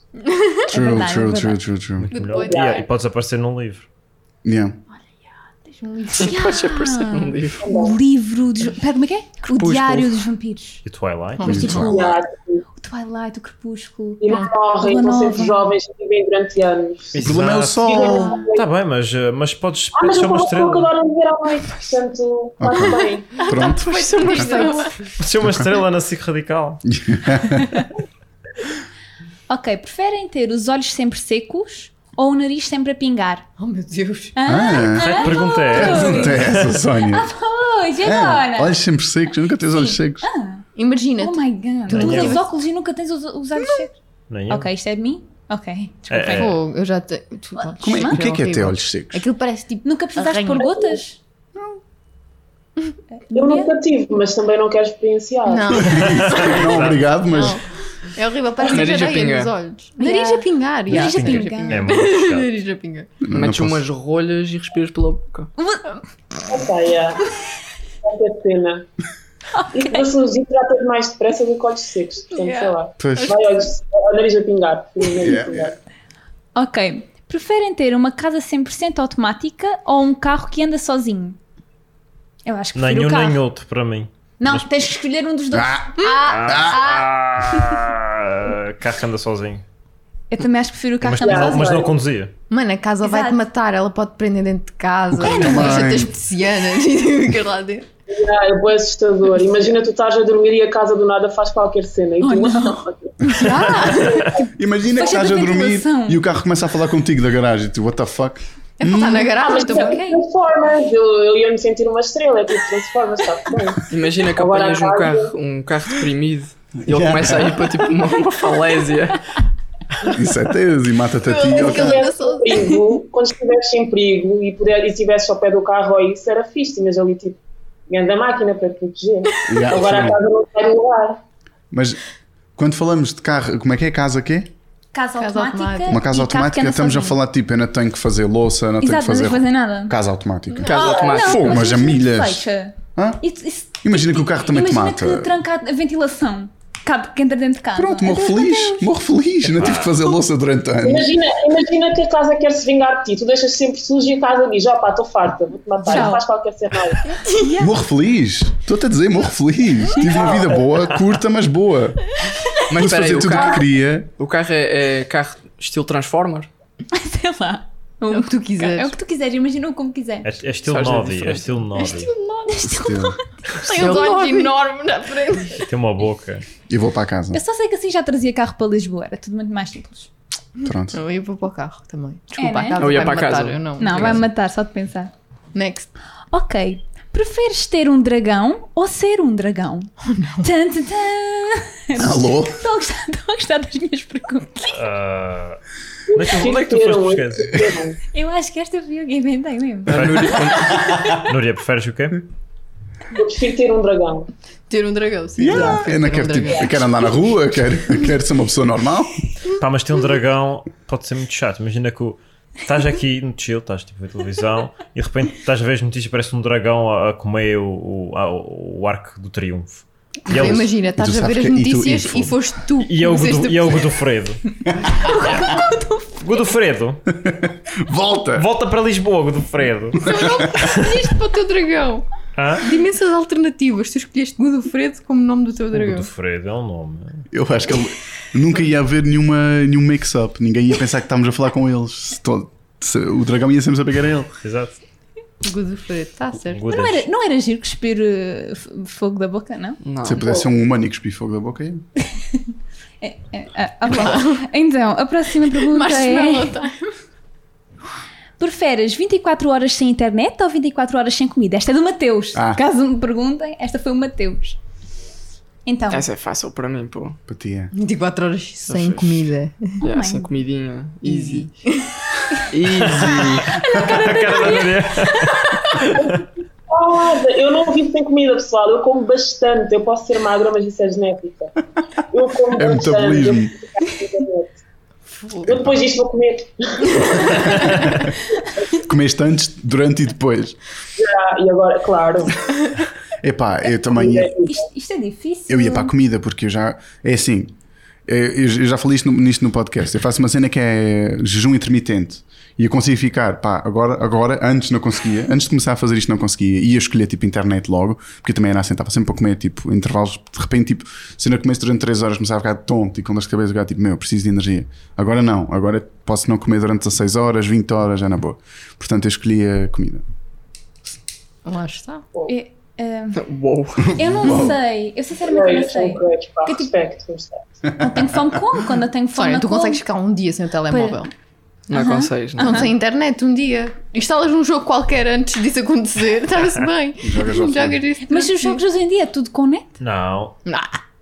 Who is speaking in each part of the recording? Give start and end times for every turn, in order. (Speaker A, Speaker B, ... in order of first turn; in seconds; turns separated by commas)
Speaker A: 0.2-0.7, Speaker B: 0.7-1.6, Speaker C: 0.7-2.1, Speaker D: 2.0-3.9, Speaker A: 2.1-2.6, Speaker E: 2.4-2.9, Speaker C: 4.4-4.8, Speaker A: 5.6-6.7, Speaker F: 6.1-7.7, Speaker B: 6.2-10.8, Speaker E: 7.6-8.0, Speaker F: 9.4-10.2, Speaker D: 10.8-11.8, Speaker A: 11.4-12.0, Speaker C: 11.4-11.9, Speaker B: 11.7-12.2, Speaker E: 11.8-12.6, Speaker B: 12.8-15.6, Speaker E: 14.2-17.2, Speaker D: 17.1-17.9, Speaker C: 17.2-18.4, Speaker E: 17.8-18.6, Speaker B: 18.0-18.3, Speaker D: 18.5-20.9, Speaker E: 19.9-23.5, Speaker C: 22.6-24.6, Speaker A: 22.8-25.1, Speaker F: 23.9-24.7, Speaker B: 24.3-24.8, Speaker D: 25.2-26.9, Speaker C: 25.4-25.7, Speaker C: 26.9-27.8, Speaker B: 29.5-33.5, Speaker A: 33.6-34.3, Speaker B: 34.4-38.7, Speaker C: 34.5-37.3, Speaker D: 34.9-36.9, Speaker C: 38.0-40.3, Speaker B: 39.8-40.6, Speaker A: 40.7-42.4, Speaker B: 41.2-43.9, Speaker D: 41.9-42.4, Speaker D: 44.3-44.7, Speaker B: 44.5-46.5, Speaker D: 46.1-46.5, Speaker A: 46.3-51.0, Speaker C: 47.8-49.2, Speaker B: 47.8-48.2, Speaker B: 49.8-51.2, Speaker B: 53.3-53.7, Speaker E: 53.3-55.9, Speaker A: 55.5-56.7, Speaker C: 55.7-57.6, Speaker D: 55.9-57.1, Speaker A: 57.3-63.1, Speaker F: 58.7-59.5, Speaker B: 60.0-61.9, Speaker D: 60.9-62.5, Speaker C: 63.3-63.8, Speaker F: 63.3-65.5, Speaker B: 65.6-66.0, Speaker E: 66.5-67.2, Speaker E: 68.0-68.9, Speaker B: 69.5-70.0, Speaker E: 69.7-75.8, Speaker A: 72.3-73.4, Speaker C: 73.0-73.4, Speaker C: 75.2-75.7, Speaker B: 76.5-81.4, Speaker B: 82.5-83.4, Speaker D: 82.7-84.6, Speaker B: 84.4-87.7, Speaker C: 85.5-85.9, Speaker D: 86.2-89.6, Speaker C: 86.5-86.8, Speaker B: 90.3-91.9, Speaker D: 91.0-92.3, Speaker E: 91.2-91.9, Speaker A: 92.5-97.9, Speaker B: 93.0-93.4, Speaker C: 95.2-96.1, Speaker B: 95.2-95.9, Speaker E: 98.1-104.3, Speaker B: 102.2-104.3, Speaker A: 103.3-104.3, Speaker C: 104.5-109.3, Speaker B: 105.0-106.2, Speaker A: 108.8-110.1, Speaker B: 109.4-110.2, Speaker E: 109.4-115.3, Speaker F: 113.9-119.2, Speaker C: 116.8-117.8, Speaker C: 120.0-122.1, Speaker A: 121.2-122.8, Speaker E: 121.5-131.2, Speaker C: 129.5-130.2, Speaker C: 131.7-132.0, Speaker C: 132.6-134.5, Speaker B: 134.9-137.2, Speaker A: 135.2-136.0, Speaker C: 135.9-140.7, Speaker B: 138.8-139.9, Speaker F: 140.6-141.8, Speaker B: 140.6-148.9, Speaker E: 140.7-141.2, Speaker C: 141.3-143.2, Speaker C: 143.8-145.3, Speaker C: 147.7-151.1, Speaker D: 149.5-149.9, Speaker E: 150.8-157.1, Speaker B: 155.8-156.2, Speaker A: 157.1-157.6, Speaker B: 157.3-157.7, Speaker C: 157.6-162.2, Speaker E: 160.1-160.5, Speaker F: 162.7-163.6, Speaker C: 162.7-164.1, Speaker F: 164.2-166.5, Speaker B: 166.9-170.3, Speaker A: 168.0-168.9, Speaker D: 170.2-172.1, Speaker F: 170.6-171.6, Speaker A: 171.8-172.7, Speaker B: 172.5-174.1, Speaker C: 172.7-173.2, Speaker A: 173.6-175.7, Speaker F: 173.7-174.5, Speaker D: 175.6-176.4, Speaker C: 176.7-177.4, Speaker B: 177.3-180.1, Speaker C: 180.6-181.0, Speaker A: 180.9-184.2, Speaker B: 182.4-183.1, Speaker F: 182.8-184.2, Speaker B: 183.8-185.1, Speaker A: 185.5-185.9, Speaker B: 186.3-189.9, Speaker A: 190.1-190.5, Speaker B: 190.4-194.8, Speaker C: 191.9-192.6, Speaker D: 194.7-195.6, Speaker E: 196.1-198.0, Speaker D: 196.1-197.7, Speaker B: 198.1-200.5, Speaker F: 199.8-200.9, Speaker D: 199.9-202.2, Speaker E: 203.1-204.3, Speaker A: 204.7-207.1, Speaker C: 205.4-209.2, Speaker D: 209.6-220.7, Speaker A: 220.3-224.0, Speaker C: 220.3-222.3, Speaker D: 222.8-224.4, Speaker B: 225.0-226.5, Speaker D: 226.2-227.0, Speaker C: 227.1-228.4, Speaker D: 228.3-231.0, Speaker A: 230.0-232.1, Speaker C: 230.1-230.5, Speaker D: 232.3-232.7, Speaker A: 232.6-236.1, Speaker D: 235.7-237.3, Speaker C: 237.3-244.3, Speaker D: 244.3-244.8, Speaker A: 245.4-246.7, Speaker D: 246.5-247.1, Speaker B: 246.7-249.8, Speaker F: 249.8-250.3, Speaker C: 250.0-251.8, Speaker B: 252.1-252.4, Speaker B: 253.0-256.5, Speaker A: 253.9-254.4, Speaker A: 255.6-256.9, Speaker B: 258.4-264.6, Speaker C: 262.3-262.6, Speaker B: 265.6-266.0, Speaker F: 265.9-267.2, Speaker C: 267.3-267.7, Speaker A: 267.7-269.8, Speaker F: 268.7-269.3, Speaker F: 269.8-271.5, Speaker B: 269.8-270.3, Speaker A: 271.0-272.0, Speaker F: 272.5-273.6, Speaker D: 272.8-276.2, Speaker B: 273.5-275.7, Speaker E: 276.7-281.5, Speaker E: 282.1-284.6, Speaker C: 282.5-283.5, Speaker A: 285.1-285.5, Speaker E: 285.4-287.8, Speaker C: 288.7-290.6, Speaker E: 291.0-292.4, Speaker C: 293.2-294.3, Speaker E: 293.9-294.6, Speaker B: 294.4-295.9, Speaker C: 295.5-297.5, Speaker C: 298.1-320.0, Speaker A: 321.4-322.0, Speaker B: 322.3-323.2, Speaker F: 323.1-324.4, Speaker C: 323.9-324.6, Speaker B: 323.9-326.7, Speaker E: 325.2-327.4, Speaker B: 327.8-329.8, Speaker C: 327.8-328.3, Speaker A: 329.1-331.1, Speaker B: 330.7-331.1, Speaker F: 331.7-332.6, Speaker B: 331.7-332.7, Speaker A: 332.4-338.6, Speaker C: 337.0-337.8, Speaker B: 338.1-339.7, Speaker D: 339.8-340.4, Speaker A: 340.4-340.7